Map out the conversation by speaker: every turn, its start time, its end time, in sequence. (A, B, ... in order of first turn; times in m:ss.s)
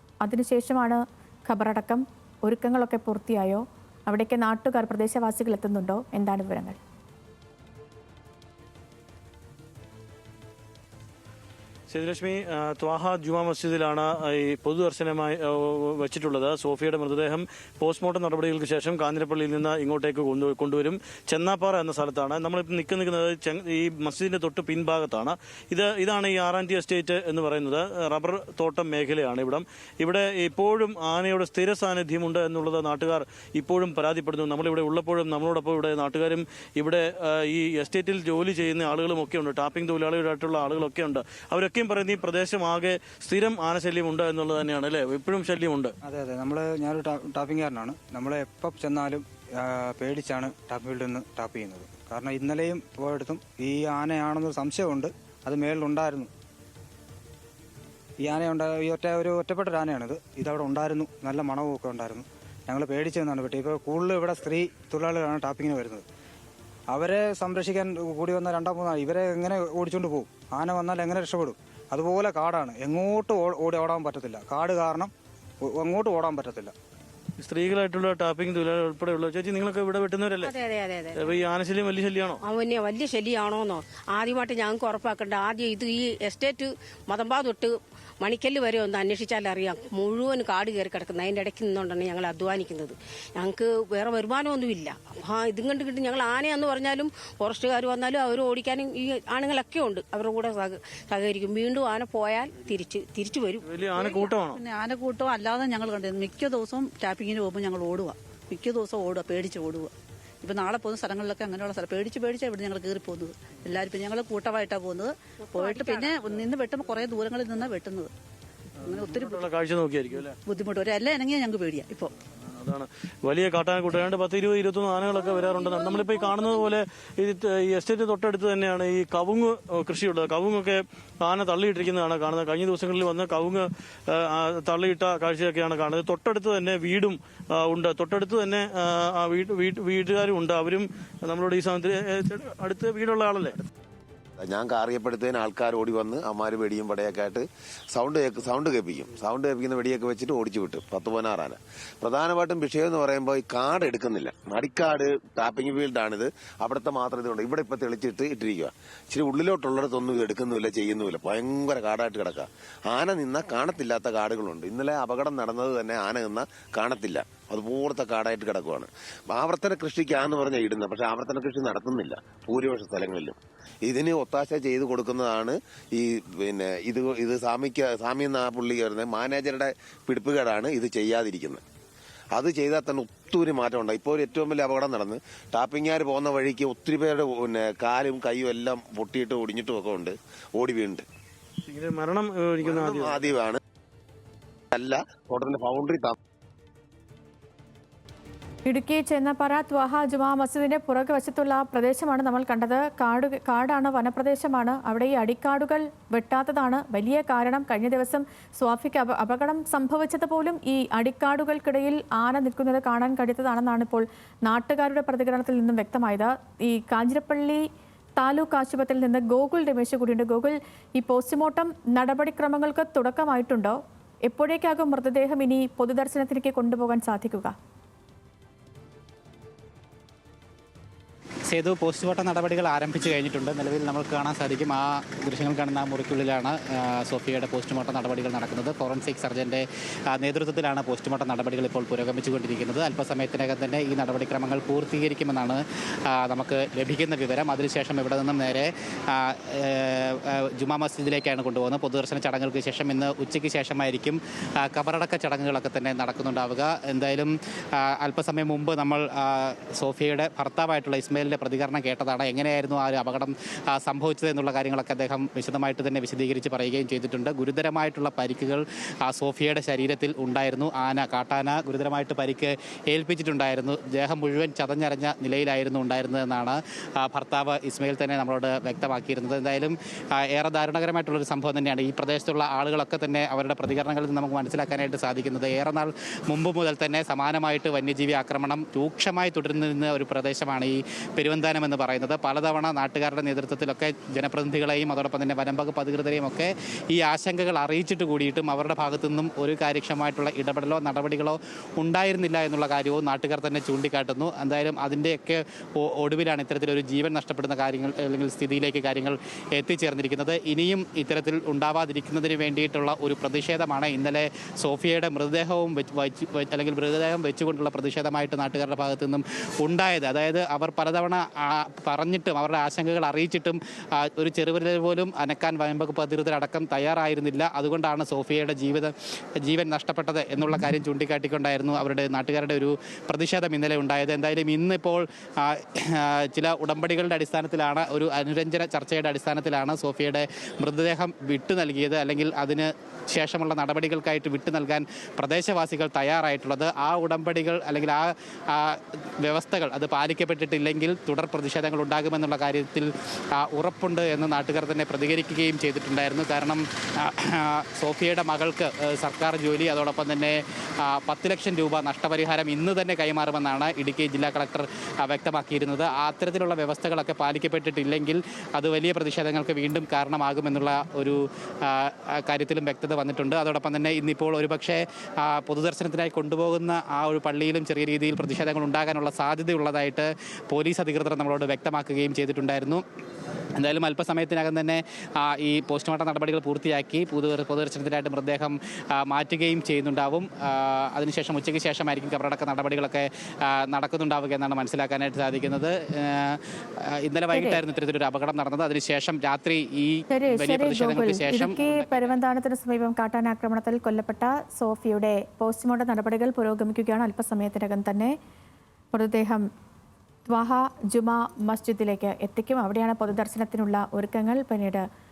0:00.2-0:06.8 A
0:11.9-0:46.0 B
0:46.0-0:56.3 C
0:58.2-1:06.0 C
1:06.9-1:15.1 C
1:15.6-1:16.7 C
1:17.4-1:20.5 B
1:20.4-1:21.4 D
1:21.3-1:22.4 B
1:22.4-1:43.9 D
1:43.7-1:44.6 B
1:43.9-1:58.1 E
1:55.6-1:56.4 D
1:58.8-1:59.5 E
1:59.2-2:00.4 B
2:00.2-2:02.1 E
2:02.6-2:23.6 B
2:05.4-2:06.5 E
2:24.4-3:01.6 F
3:02.3-3:11.0 F
3:11.6-3:13.2 B
3:12.6-3:13.6 F
3:14.7-3:16.2 F
3:18.6-3:37.6 A
3:38.2-3:47.6 A
3:51.5-5:28.9 G
5:29.4-6:22.8 G
6:23.6-6:42.2 G
6:37.3-6:37.6 A
6:40.1-6:48.2 A
6:48.9-6:49.4 A
6:50.3-6:54.8 A